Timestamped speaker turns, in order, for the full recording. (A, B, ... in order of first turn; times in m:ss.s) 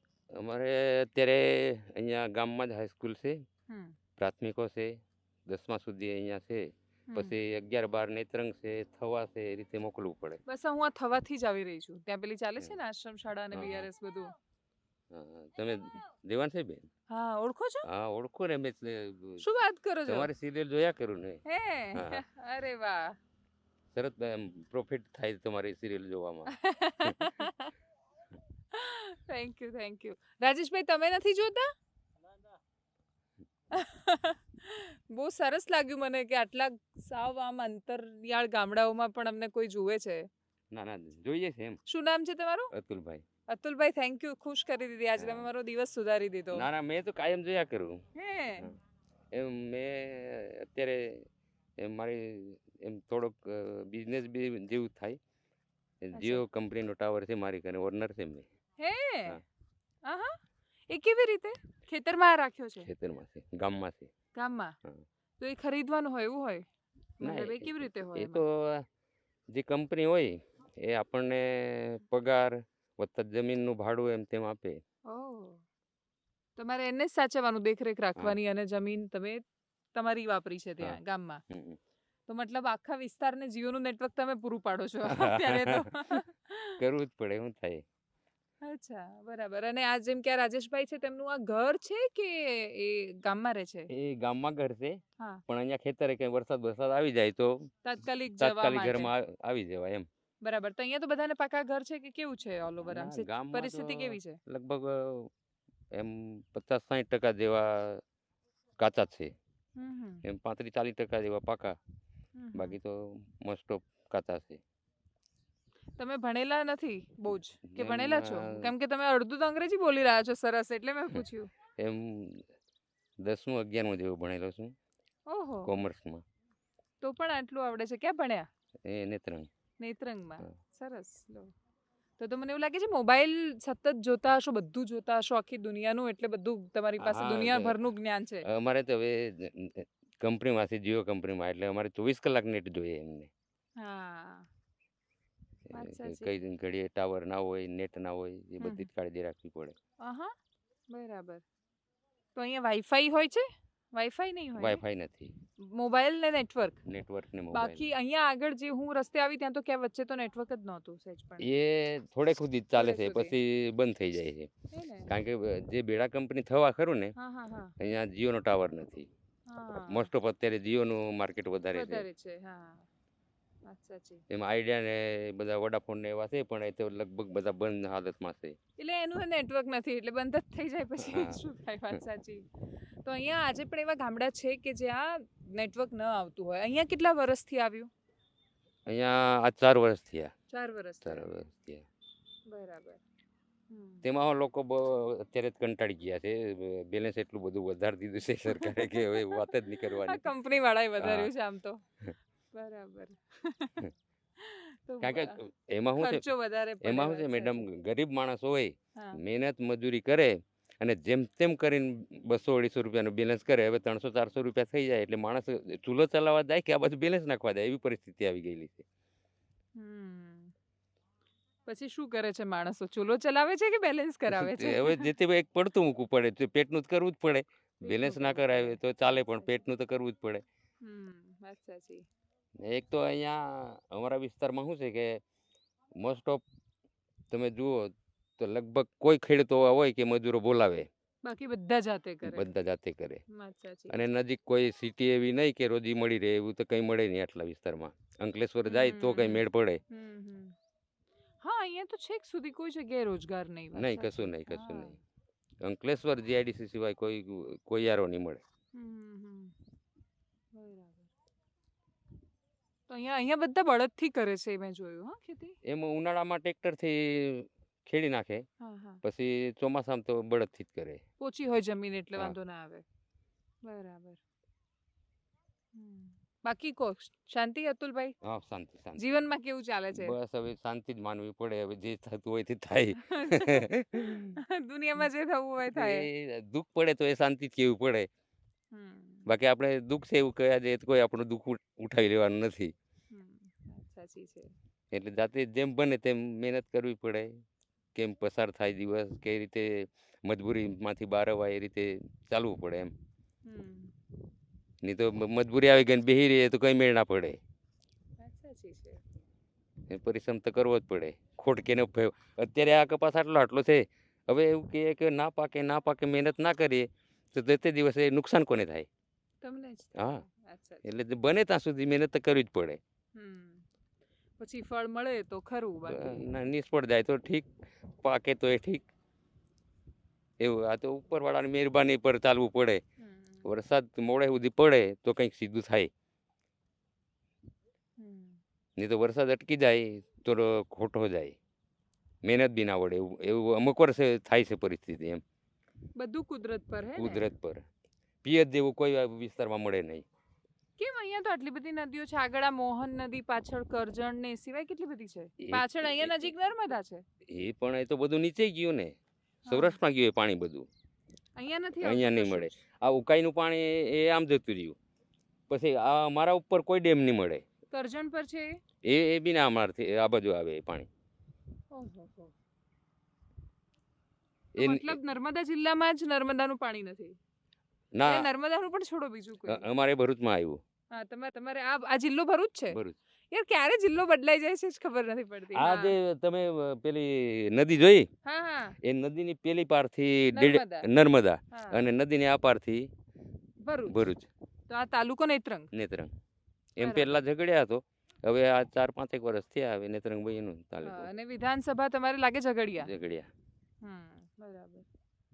0:00.3-0:03.4 A
0:03.7-0:03.9 B
0:04.2-0:10.4 A
0:07.1-0:07.4 B
0:10.5-0:14.3 B
0:13.5-0:13.9 A
0:15.1-0:16.9 A
0:17.1-0:17.8 B
0:17.8-0:19.4 A
0:19.4-0:20.3 B
0:20.1-0:21.4 A
0:21.4-0:23.2 B
0:21.9-0:22.2 A
0:23.9-0:27.3 A
0:26.5-0:27.7 B
0:28.7-0:31.7 B
0:33.7-0:40.3 B
0:40.7-0:41.8 A
0:41.8-0:42.7 B
0:42.7-0:43.2 A
0:43.5-0:46.6 B
0:45.2-0:45.5 A
0:46.5-0:48.0 A
0:48.2-0:48.7 B
0:49.3-0:51.3 A
0:51.8-0:55.2 A
0:56.0-0:58.5 A
0:56.1-0:56.4 B
0:58.8-0:59.4 B
1:00.0-1:02.9 B
1:02.8-1:04.1 A
1:04.3-1:04.7 B
1:05.4-1:06.6 B
1:07.2-1:08.4 B
1:07.2-1:08.8 A
1:09.5-1:14.8 A
1:15.1-1:15.6 B
1:16.6-1:19.4 B
1:19.9-1:21.4 B
1:21.5-1:21.8 A
1:22.3-1:26.8 B
1:25.0-1:25.9 A
1:26.8-1:27.8 A
1:28.6-1:33.9 B
1:33.9-1:37.7 A
1:37.8-1:39.1 B
1:38.4-1:40.0 A
1:40.4-1:44.4 B
1:42.8-1:45.3 A
1:45.9-1:48.0 A
1:48.8-1:49.3 A
1:49.8-1:50.2 B
1:50.2-1:51.8 A
1:52.4-1:52.8 B
1:52.5-1:54.6 A
1:56.0-2:01.5 B
1:57.3-1:58.7 A
2:01.8-2:02.5 A
2:03.2-2:04.7 A
2:05.3-2:05.7 B
2:05.6-2:06.2 A
2:07.0-2:08.5 B
2:08.8-2:09.5 A
2:09.8-2:11.5 B
2:12.2-2:18.5 B
2:17.0-2:17.8 A
2:18.4-2:23.3 A
2:23.8-2:24.5 B
2:25.7-2:29.8 A
2:25.7-2:26.3 B
2:28.6-2:28.9 B
2:30.0-2:30.3 B
2:30.9-2:31.4 B
2:32.3-2:34.8 B
2:34.6-2:35.3 A
2:35.6-2:36.8 B
2:36.9-2:37.9 A
2:37.5-2:41.5 B
2:41.4-2:44.5 A
2:42.8-2:43.3 B
2:44.7-2:45.1 B
2:45.1-2:47.1 A
2:47.2-2:47.7 B
2:47.8-2:49.1 A
2:49.5-2:50.1 B
2:49.9-2:52.0 A
2:51.7-2:52.9 B
2:53.6-2:54.2 B
2:54.3-2:58.6 A
2:58.8-3:02.5 B
3:01.0-3:01.4 A
3:03.0-3:07.9 B
3:08.9-3:10.3 A
3:10.5-3:11.4 B
3:11.0-3:11.8 A
3:12.5-3:13.0 B
3:13.7-3:14.0 B
3:14.0-3:20.3 A
3:18.5-3:21.8 B
3:21.0-3:21.3 A
3:22.5-3:25.4 B
3:25.0-3:26.2 A
3:26.0-3:27.7 B
3:26.8-3:38.8 A
3:39.8-3:40.5 B
3:41.6-3:45.1 B
3:44.3-3:50.4 A
3:47.8-3:48.8 B
3:50.8-3:52.0 B
3:52.6-3:55.2 A
3:56.0-3:56.4 A
3:57.3-4:00.9 A
4:01.2-4:02.5 B
4:02.2-4:03.2 A
4:03.3-4:04.0 B
4:03.9-4:09.8 A
4:08.6-4:10.6 B
4:11.4-4:15.0 B
4:13.7-4:15.0 A
4:15.6-4:18.4 A
4:18.7-4:19.5 B
4:20.5-4:21.1 B
4:22.9-4:25.6 B
4:25.6-4:28.4 A
4:28.6-4:29.0 B
4:29.0-4:31.0 A
4:31.2-4:32.8 B
4:33.6-4:34.2 B
4:35.7-4:38.1 B
4:38.2-4:39.1 A
4:39.0-4:40.2 B
4:39.9-4:44.4 A
4:43.0-4:46.1 B
4:45.7-4:48.1 A
4:48.7-4:49.3 B
4:49.3-4:52.7 A
4:53.1-4:54.5 B
4:54.9-4:57.4 A
4:57.9-5:02.9 A
5:03.4-5:03.9 B
5:04.8-5:07.4 A
5:08.2-5:09.0 B
5:09.9-5:18.9 A
5:19.4-5:20.8 B
5:20.0-5:20.2 A
5:20.8-5:22.8 A
5:23.1-5:23.6 B
5:24.4-5:26.2 B
5:25.9-5:27.5 A
5:28.0-5:28.9 A
5:30.4-5:32.8 A
5:33.0-5:33.4 B
5:33.4-5:35.9 A
5:38.0-5:38.4 B
5:38.8-5:41.4 A
5:42.2-5:45.2 A
5:46.0-5:47.3 B
5:47.0-5:47.6 A
5:48.2-5:50.0 A
5:50.8-5:57.0 B
5:55.4-5:56.3 A
5:57.2-5:58.9 A
5:59.5-5:59.8 B
5:59.5-6:00.7 A
6:01.4-6:02.5 B
6:01.8-6:04.8 A
6:05.5-6:07.4 A
6:07.7-6:08.6 B
6:08.8-6:10.9 A
6:11.7-6:12.3 B
6:14.6-6:17.2 B
6:14.6-6:15.0 A
6:17.9-6:18.3 A
6:18.0-6:19.6 B
6:19.4-6:20.6 A
6:20.9-6:22.8 B
6:22.7-6:23.0 A
6:23.3-6:26.0 B
6:25.5-6:28.1 A
6:28.2-6:28.8 B
6:28.8-6:32.9 A
6:30.3-6:30.9 B
6:31.5-6:31.8 B
6:33.6-6:34.1 B
6:33.8-6:34.3 A
6:34.7-6:35.7 B
6:35.7-6:36.1 A
6:36.8-6:41.1 A
6:36.8-6:37.2 B
6:40.8-6:42.9 B
6:42.8-6:43.3 A
6:43.8-6:44.8 B